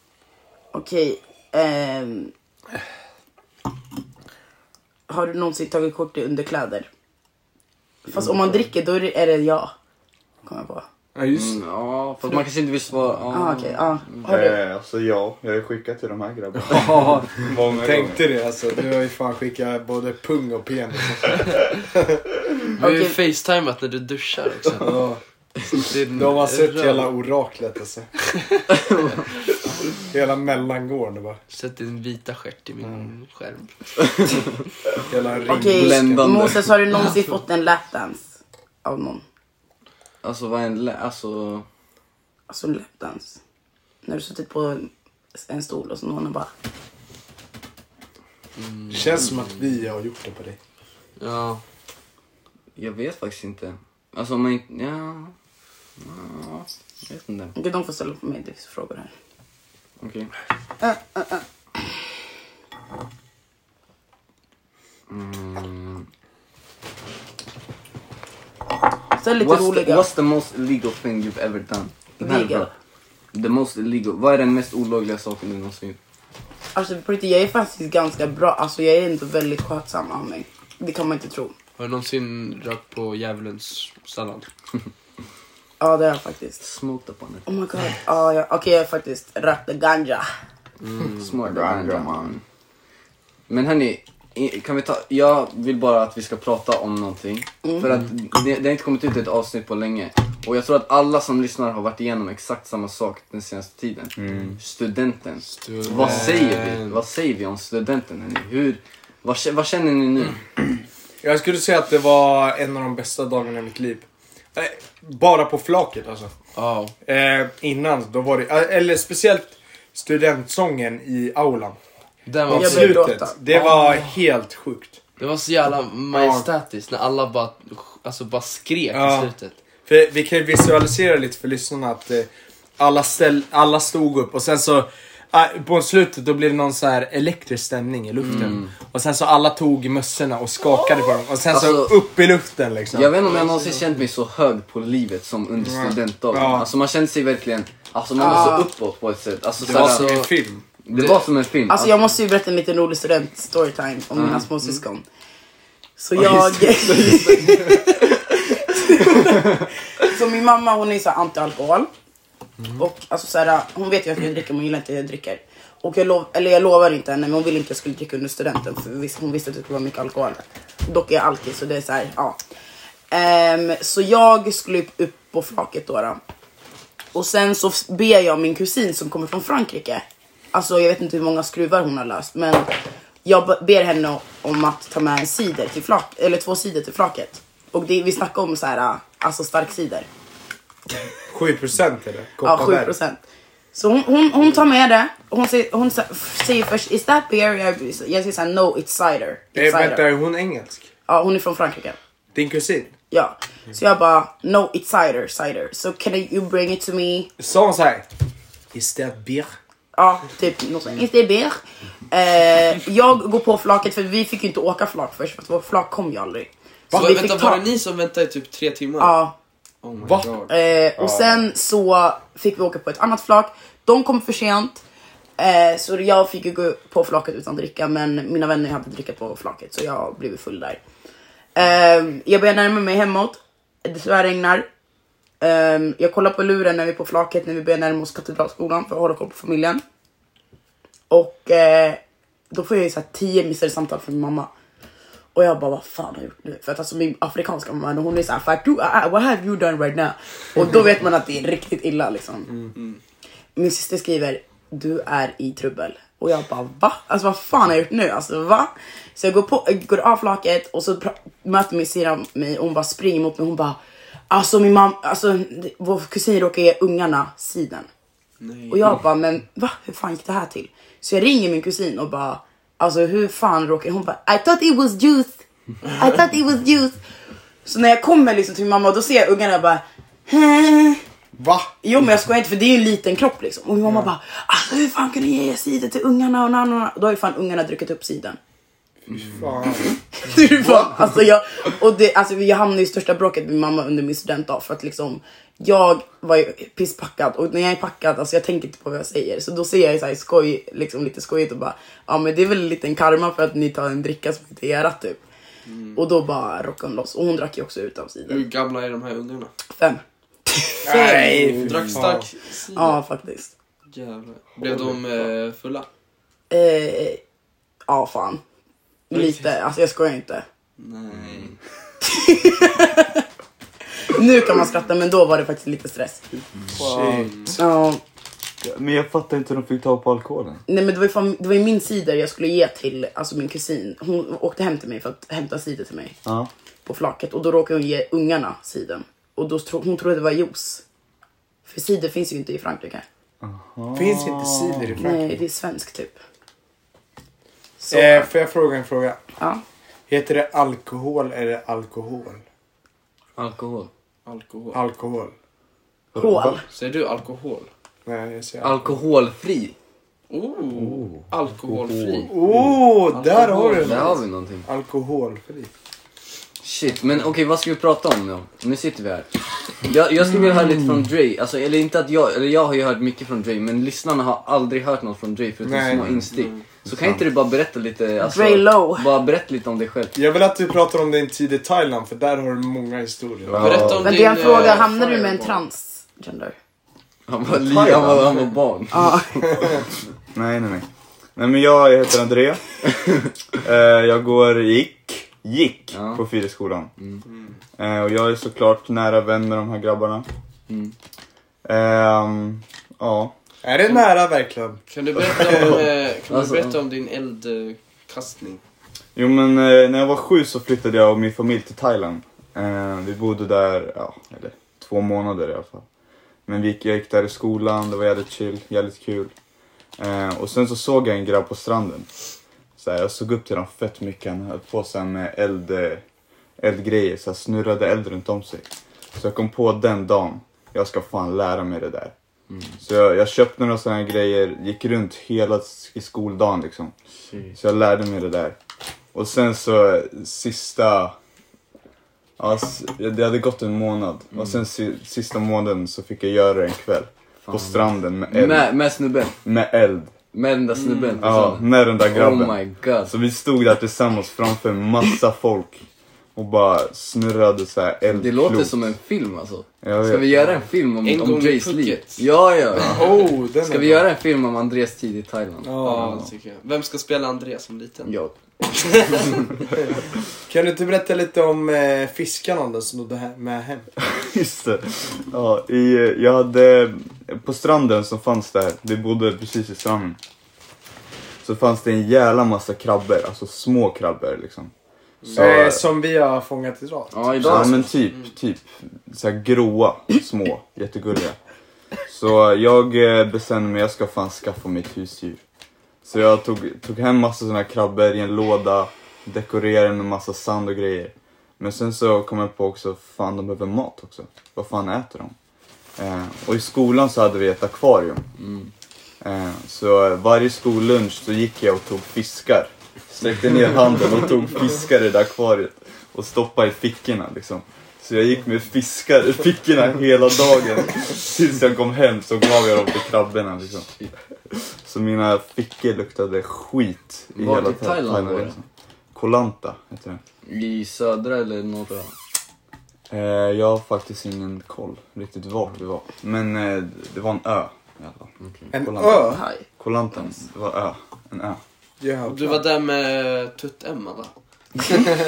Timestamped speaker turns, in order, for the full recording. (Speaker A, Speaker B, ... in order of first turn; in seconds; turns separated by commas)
Speaker A: 0.7-2.3, Speaker A: 5.1-6.9, Speaker A: 8.1-9.7, Speaker A: 10.4-10.8, Speaker B: 11.2-11.6, Speaker C: 11.3-14.3, Speaker A: 13.3-14.6, Speaker D: 14.2-18.3, Speaker B: 16.7-22.2, Speaker E: 22.8-25.1, Speaker A: 22.8-23.2, Speaker B: 24.8-25.2, Speaker E: 25.7-27.1, Speaker B: 26.1-28.1, Speaker C: 28.9-29.2, Speaker B: 30.1-31.4, Speaker E: 31.5-33.7, Speaker C: 34.0-34.4, Speaker B: 35.1-36.4, Speaker A: 35.5-39.2, Speaker C: 35.6-36.8, Speaker C: 40.2-41.7, Speaker A: 42.5-43.4, Speaker A: 44.0-46.5, Speaker E: 48.6-49.2, Speaker B: 48.9-50.6, Speaker E: 51.2-51.6, Speaker C: 52.8-55.3, Speaker C: 56.0-57.6, Speaker A: 57.5-59.1, Speaker C: 60.0-60.3, Speaker A: 60.8-61.4, Speaker C: 65.1-66.1, Speaker A: 69.2-70.1, Speaker C: 69.4-72.7, Speaker A: 72.2-72.7, Speaker C: 73.3-76.0, Speaker A: 76.8-81.5, Speaker E: 81.8-84.5, Speaker A: 85.8-86.6, Speaker C: 86.6-87.6, Speaker A: 87.5-90.3, Speaker E: 90.8-91.3, Speaker C: 91.0-92.4, Speaker D: 91.4-92.4, Speaker C: 93.5-110.4, Speaker D: 104.2-104.5, Speaker E: 105.5-107.0, Speaker B: 105.9-106.5, Speaker B: 111.2-116.3, Speaker E: 116.5-117.0, Speaker B: 117.0-121.8, Speaker E: 122.3-124.1, Speaker B: 122.5-125.0, Speaker A: 122.5-123.4, Speaker E: 125.2-129.6, Speaker B: 126.1-126.5, Speaker B: 128.9-129.3, Speaker B: 129.9-143.4, Speaker E: 138.2-138.6, Speaker C: 138.3-138.7, Speaker C: 141.5-142.0, Speaker C: 142.9-150.1, Speaker E: 143.3-143.8, Speaker B: 145.6-146.7, Speaker A: 148.2-148.7, Speaker B: 149.6-150.7, Speaker E: 149.7-150.3, Speaker C: 150.8-152.1, Speaker A: 151.0-155.1, Speaker A: 156.0-161.9, Speaker C: 156.2-157.4, Speaker A: 162.8-172.4, Speaker A: 173.1-176.2, Speaker A: 177.2-182.7, Speaker A: 183.2-190.1, Speaker B: 191.3-192.9, Speaker A: 192.4-193.2, Speaker A: 193.7-200.1, Speaker B: 199.6-200.9, Speaker A: 201.1-202.0, Speaker B: 202.3-202.9, Speaker A: 203.1-207.3, Speaker B: 207.4-208.1, Speaker B: 208.7-209.5, Speaker A: 210.0-217.7, Speaker E: 216.9-219.2, Speaker A: 219.0-219.3, Speaker E: 219.8-220.5, Speaker B: 220.1-220.3, Speaker A: 220.5-224.8, Speaker D: 221.0-221.4, Speaker A: 225.4-230.8, Speaker A: 231.6-234.7, Speaker A: 235.4-239.8, Speaker A: 241.1-244.5, Speaker A: 245.3-252.5, Speaker A: 253.6-263.8, Speaker A: 264.3-267.9, Speaker E: 268.4-269.0, Speaker A: 268.7-277.0, Speaker A: 277.6-281.0, Speaker B: 281.4-281.7, Speaker A: 281.8-288.4, Speaker B: 289.2-289.9, Speaker A: 290.1-305.2, Speaker E: 305.7-306.0, Speaker A: 305.9-308.5, Speaker E: 308.3-309.5, Speaker A: 309.8-311.3, Speaker B: 310.9-312.3, Speaker E: 310.9-313.0, Speaker A: 312.7-313.5, Speaker E: 313.9-315.9, Speaker A: 316.5-317.2, Speaker A: 317.9-318.4, Speaker A: 319.1-320.4, Speaker E: 319.1-319.5, Speaker E: 320.8-321.6, Speaker A: 322.0-323.3, Speaker A: 324.0-326.2, Speaker B: 326.7-327.6, Speaker E: 326.8-327.6, Speaker A: 327.6-328.0, Speaker D: 328.6-330.6, Speaker A: 330.7-336.1, Speaker D: 336.2-336.5, Speaker A: 336.9-340.8, Speaker A: 341.7-343.1, Speaker D: 343.4-345.0, Speaker B: 343.9-345.2, Speaker A: 345.0-346.2, Speaker A: 347.8-348.3, Speaker B: 347.9-349.2, Speaker B: 350.1-352.4, Speaker C: 353.4-353.9, Speaker E: 354.3-354.8, Speaker B: 354.7-355.3, Speaker D: 356.1-356.6, Speaker A: 356.1-356.6, Speaker E: 356.7-357.7, Speaker B: 358.1-359.0, Speaker C: 358.6-359.8, Speaker E: 360.3-364.2, Speaker B: 362.3-365.7, Speaker C: 363.8-364.7, Speaker C: 366.6-380.2, Speaker B: 375.6-376.2, Speaker E: 376.3-376.6, Speaker D: 376.9-377.2, Speaker A: 378.2-379.1, Speaker B: 380.1-384.0, Speaker D: 383.5-384.1, Speaker E: 383.5-385.6, Speaker C: 383.5-384.0, Speaker A: 383.9-386.6, Speaker C: 387.3-389.2, Speaker D: 387.5-388.3, Speaker A: 388.9-389.7, Speaker D: 390.3-392.9, Speaker D: 393.5-396.9, Speaker C: 395.9-396.2, Speaker C: 397.0-397.2, Speaker E: 397.3-397.6, Speaker D: 397.8-400.3, Speaker C: 400.7-400.9, Speaker D: 401.6-403.3, Speaker B: 403.6-405.7, Speaker E: 404.9-408.6, Speaker C: 405.5-406.8, Speaker D: 409.2-415.9, Speaker D: 416.5-419.3, Speaker D: 420.0-422.1, Speaker D: 422.8-426.0, Speaker D: 426.6-432.1, Speaker D: 432.8-436.9, Speaker C: 437.2-437.6, Speaker D: 437.6-438.6, Speaker D: 439.1-441.2, Speaker D: 442.4-448.7, Speaker C: 447.4-449.4, Speaker D: 449.4-450.1, Speaker C: 450.3-453.1, Speaker E: 450.7-451.5, Speaker D: 451.2-455.8, Speaker D: 456.4-458.9, Speaker C: 458.1-466.0, Speaker D: 459.8-460.4, Speaker E: 461.0-462.3, Speaker B: 462.8-464.1, Speaker B: 465.6-466.2, Speaker E: 465.8-468.1, Speaker C: 468.1-468.4, Speaker E: 468.7-469.4, Speaker B: 470.5-473.9, Speaker D: 474.1-480.2, Speaker D: 481.4-484.7, Speaker D: 485.2-485.9, Speaker B: 485.3-487.6, Speaker C: 487.1-487.9, Speaker D: 487.4-491.4, Speaker D: 492.1-495.4, Speaker D: 496.0-505.4, Speaker D: 506.0-508.2, Speaker C: 508.4-508.7, Speaker D: 509.2-523.9, Speaker D: 524.5-530.2, Speaker C: 527.4-528.6, Speaker C: 530.5-532.1, Speaker D: 533.1-541.6, Speaker C: 538.4-538.7, Speaker B: 538.7-539.4, Speaker A: 539.0-539.6, Speaker B: 542.0-542.6, Speaker E: 542.3-544.3